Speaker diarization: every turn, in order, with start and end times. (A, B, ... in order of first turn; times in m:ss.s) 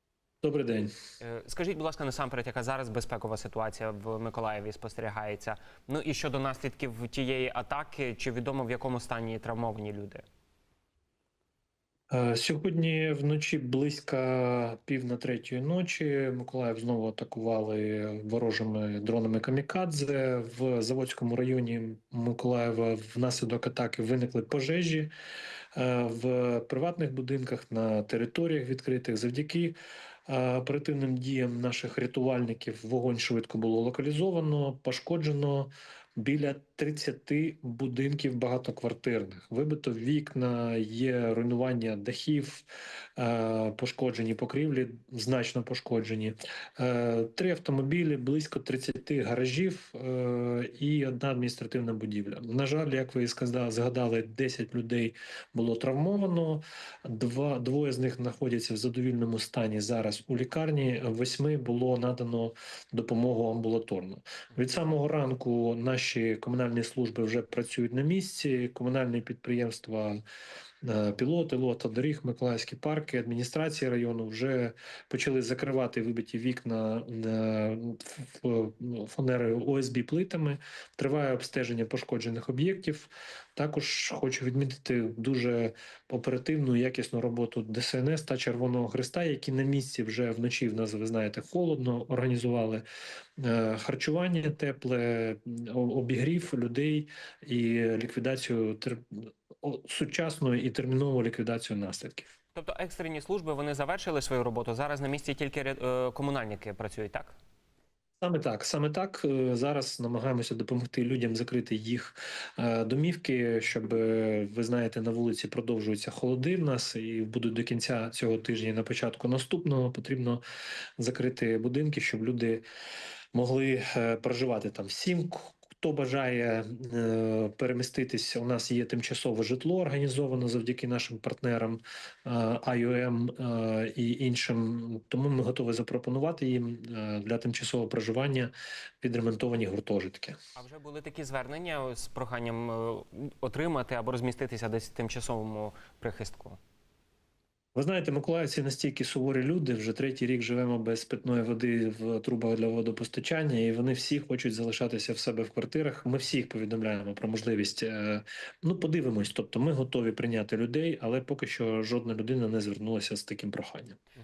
0:00.4-0:00.9 A
0:01.2-0:10.2 B
0:12.1-0:25.1 A
0:25.7-0:42.6 A
0:43.2-1:10.2 A
1:10.8-1:32.8 A
1:33.4-1:42.3 A
1:42.5-1:47.3 B
1:48.2-2:00.4 A
2:01.0-2:02.6 A
2:03.3-2:20.4 A
2:20.6-2:26.6 B
2:27.7-2:44.0 A